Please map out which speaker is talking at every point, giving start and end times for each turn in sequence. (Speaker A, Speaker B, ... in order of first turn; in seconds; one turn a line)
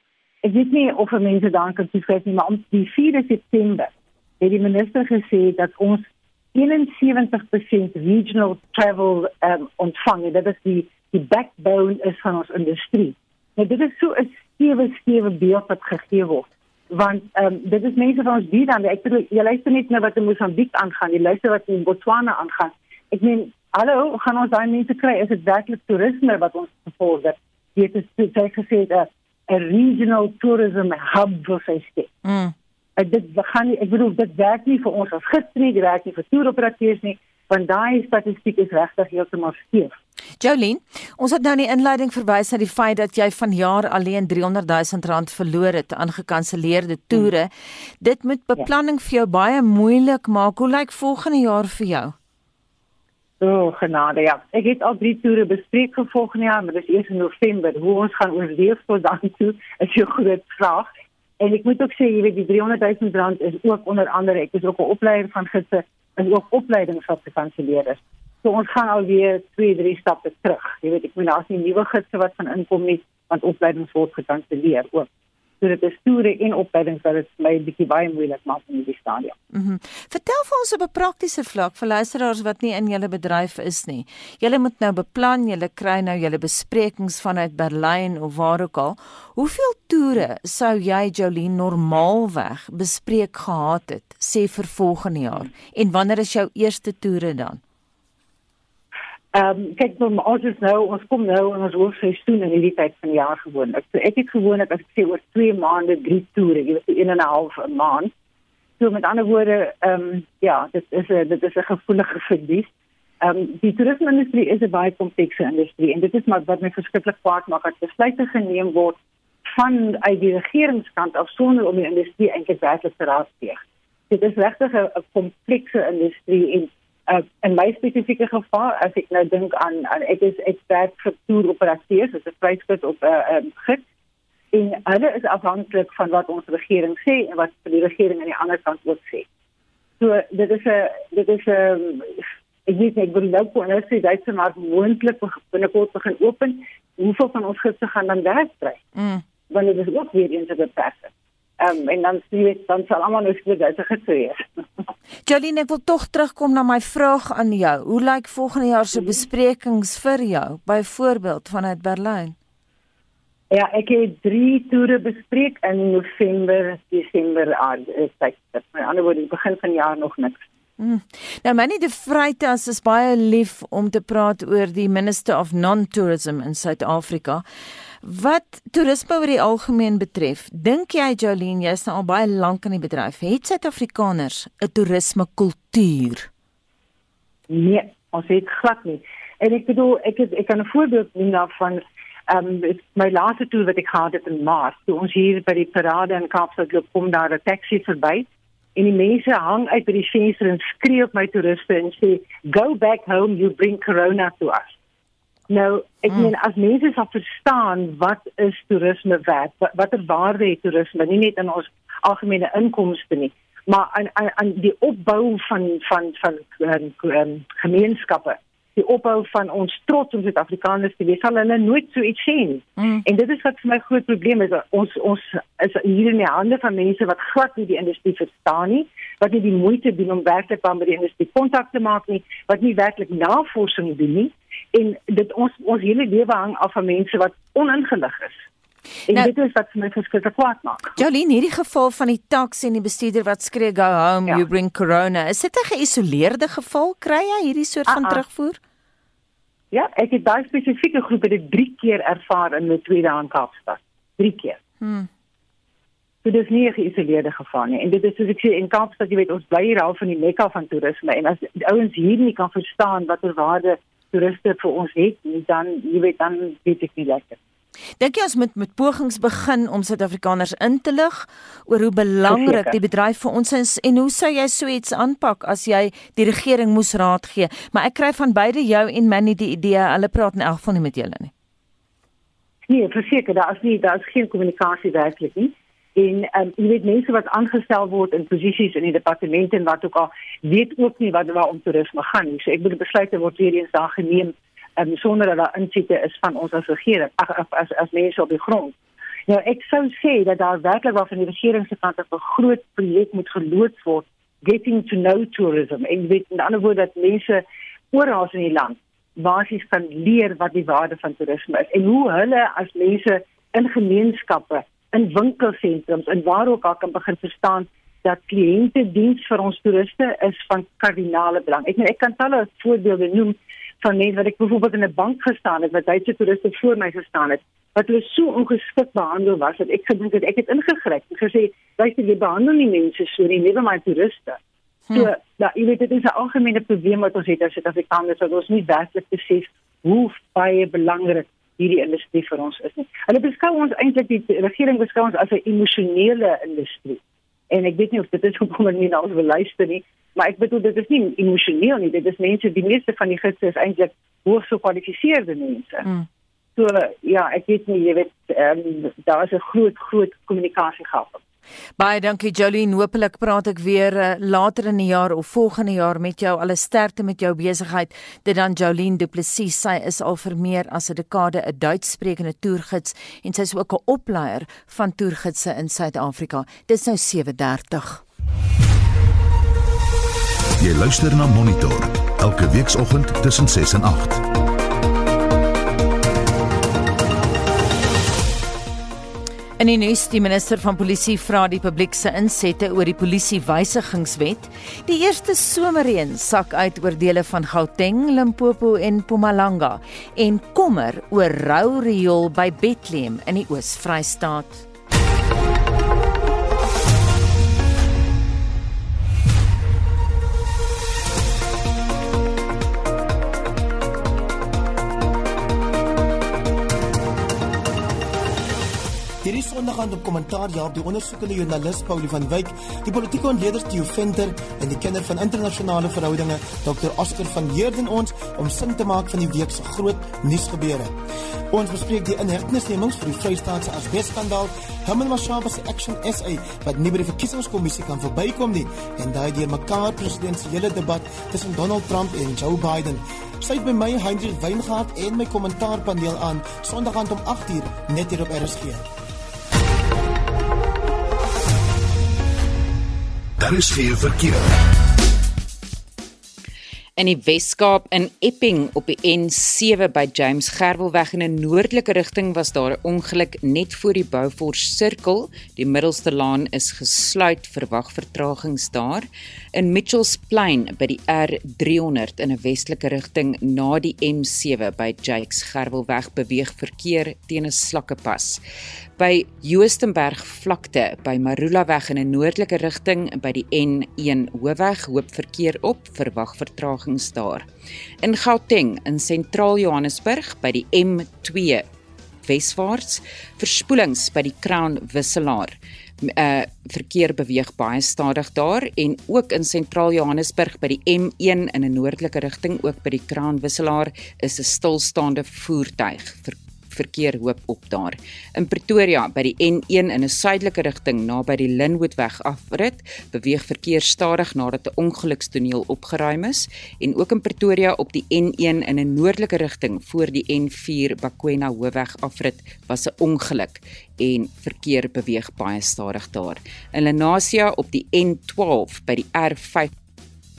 Speaker A: 0.4-32.1
Speaker B: 32.2-32.5
Speaker A: 33.0-39.9
Speaker B: 40.4-52.1
Speaker A: 53.4-75.1
Speaker A: 75.6-79.3
Speaker B: 79.5-97.6
Speaker A: 99.3-108.1
Speaker A: 108.8-112.7
Speaker A: 113.2-119.0
Speaker A: 119.5-133.8
Speaker A: 134.5-139.2
Speaker A: 140.0-148.8
Speaker B: 148.9-149.2
Speaker A: 149.5-154.6
Speaker B: 155.2-162.3
Speaker A: 163.5-170.4
Speaker B: 170.8-177.4
Speaker B: 178.0-186.3
Speaker A: 187.5-204.7
Speaker A: 205.5-238.4
Speaker A: 239.1-241.0
Speaker B: 240.9-248.6
Speaker A: 247.9-248.2
Speaker A: 249.7-254.6
Speaker B: 254.8-255.1
Speaker A: 256.2-267.4
Speaker B: 268.0-281.3
Speaker A: 272.3-272.7
Speaker A: 282.7-298.7
Speaker A: 299.3-334.4
Speaker A: 334.9-355.9
Speaker A: 356.6-361.2
Speaker B: 361.8-378.0
Speaker C: 380.6-384.2
Speaker B: 389.6-404.6
Speaker D: 419.2-430.9
Speaker D: 431.5-448.8
Speaker C: 453.4-454.5
Speaker E: 457.0-478.4
Speaker E: 479.0-487.4
Speaker E: 488.0-491.6
Speaker E: 492.2-529.7